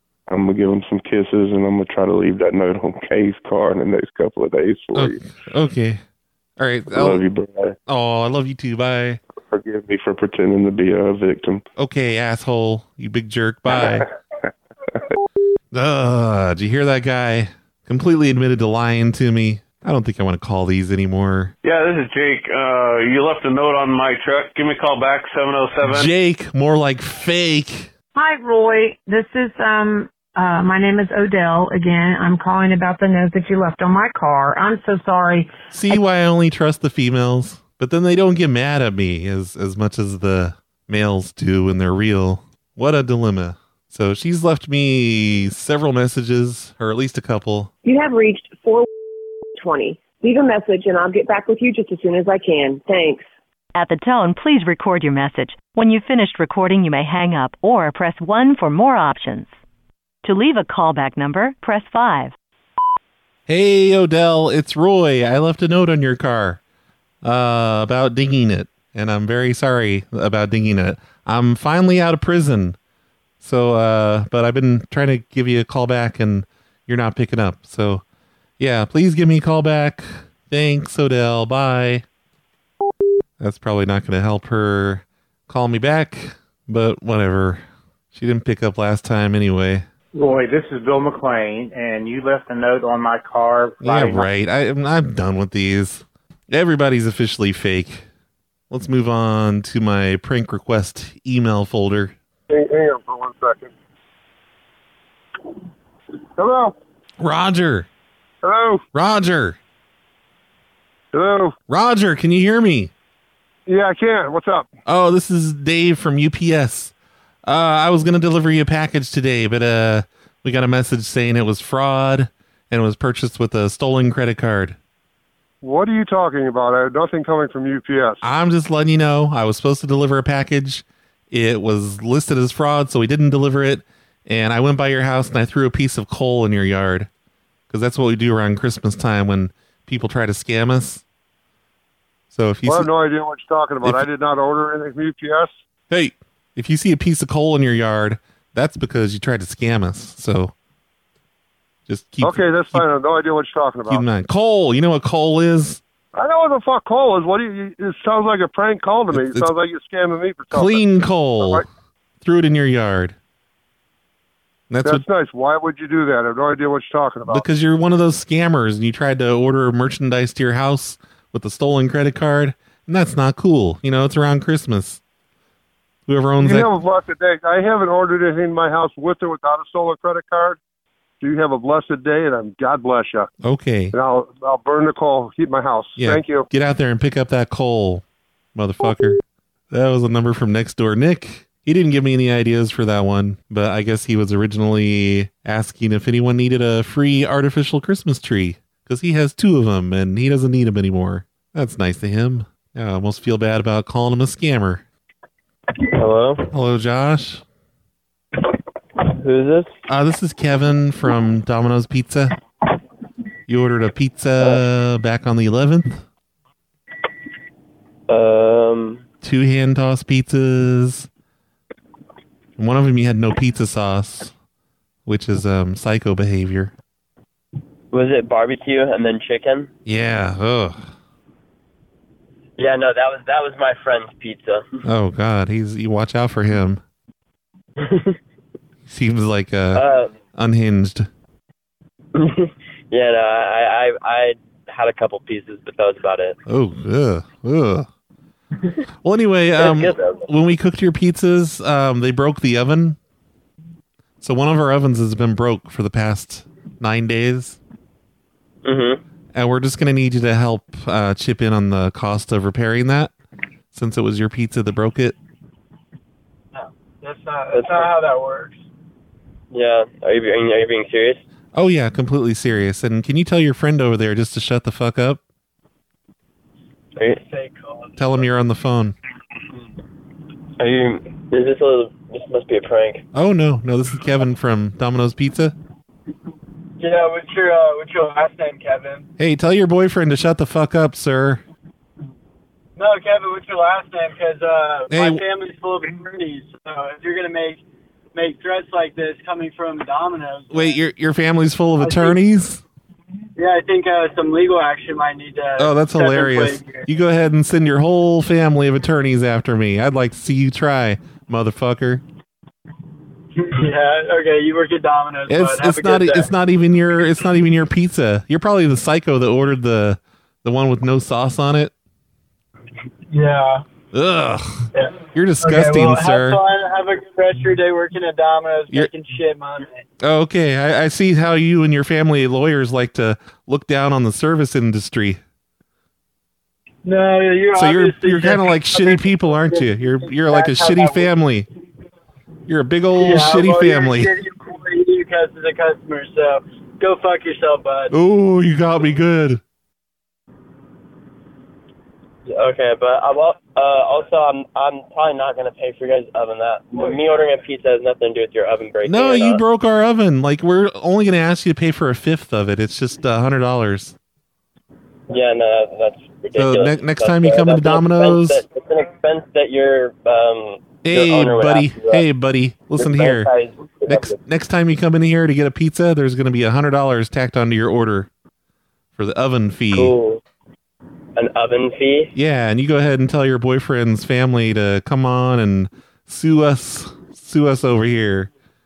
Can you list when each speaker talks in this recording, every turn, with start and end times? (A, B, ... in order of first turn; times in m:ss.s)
0:00.3-0:05.2 A
0:04.9-0:06.0 B
0:06.6-0:07.2 B
0:06.9-0:07.8 A
0:07.9-0:09.2 B
0:09.4-0:11.6 A
0:11.8-0:14.1 B
0:13.7-0:14.1 A
0:15.7-0:21.5 B
0:21.6-0:26.1 C
0:25.8-0:27.9 B
0:28.2-0:35.5 D
0:35.7-0:47.7 B
0:47.8-0:48.9 E
0:49.6-0:53.2 E
0:53.8-0:59.6 F
1:00.2-1:02.3 F
1:03.5-1:06.6 B
1:07.2-1:12.8 B
1:13.4-1:18.0 B
1:18.6-1:22.0 B
1:23.4-1:29.9 B
1:30.2-1:34.3 G
1:33.8-1:38.1 B
1:38.7-1:42.2 B
1:42.5-1:43.7 H
1:46.4-1:46.7 H
1:47.2-1:47.9 B
1:48.4-1:48.8 H
1:48.9-1:49.6 B
1:51.1-1:51.6 H
1:51.7-1:52.9 B
1:53.7-1:54.7 H
1:54.9-1:56.9 B
1:57.4-2:04.8 B
2:05.6-2:08.2 H
2:08.2-2:17.1 B
2:17.7-2:21.0 B
2:22.3-2:22.9 B
2:22.7-2:25.6 H
2:25.9-2:30.5 B
2:31.9-2:32.8 B
2:32.2-2:34.0 H
2:33.9-2:35.8 B
2:36.1-2:40.8 H
2:39.1-2:39.5 B
2:40.5-2:41.7 B
2:42.2-2:43.2 B
2:44.7-2:45.0 B
2:44.8-2:47.4 H
2:47.3-2:55.0 B
2:56.1-2:56.7 B
2:56.4-3:00.6 H
3:01.2-3:03.3 H
3:03.4-3:03.9 B
3:03.9-3:06.5 H
3:06.0-3:08.0 B
3:08.6-3:09.2 B
3:09.7-3:24.8 B
3:25.9-3:26.5 I
3:26.5-3:27.4 B
3:29.1-3:29.7 I
3:29.9-3:32.4 B
3:33.5-3:36.0 B
3:38.1-3:39.0 I
3:39.2-3:41.1 B
3:42.6-3:44.3 B
3:45.1-3:46.7 B
3:47.9-3:49.7 I
3:49.8-3:50.9 B
3:52.6-3:54.8 I
3:54.8-3:56.8 B
3:57.8-3:58.2 I
3:58.9-3:59.8 B
3:59.7-4:00.1 I
4:00.3-4:01.1 B
4:02.2-4:06.4 I
4:06.5-4:07.9 B
4:09.0-4:13.0 B
4:09.6-4:10.3 I
4:14.2-4:17.6 B
4:18.6-4:19.0 I
4:19.3-4:23.1 B
4:23.7-4:25.2 B
4:26.5-4:28.6 J
4:27.5-4:27.9 I
4:29.5-4:31.2 I
4:31.5-4:35.2 B
4:37.2-4:38.2 J
4:38.0-4:39.0 B
4:40.6-4:43.0 I
4:43.1-4:45.6 B
4:46.8-4:49.1 J
4:49.2-4:51.4 B
4:52.8-4:57.6 J
4:54.9-4:55.2 B
4:58.1-5:00.8 J
5:00.5-5:02.6 B
5:01.8-5:02.2 J
5:03.4-5:06.9 J
5:05.6-5:12.0 B
5:13.4-5:16.3 J
5:15.3-5:21.7 B
5:23.1-5:23.6 J
5:23.9-5:26.4 B
5:24.7-5:29.8 J
5:30.0-5:35.2 B
5:36.8-5:41.1 J
5:37.5-5:41.5 B
5:42.5-5:44.1 B
5:42.9-5:47.9 J
5:47.9-5:49.4 B
5:52.3-5:59.4 I
5:58.8-6:04.0 B
6:05.1-6:12.0 I
6:06.4-6:08.4 B
6:10.8-6:13.3 B
6:12.8-6:14.2 I
6:13.9-6:18.1 B
6:19.0-6:19.9 B
6:19.7-6:20.2 I
6:21.2-6:22.1 I
6:22.2-6:28.3 B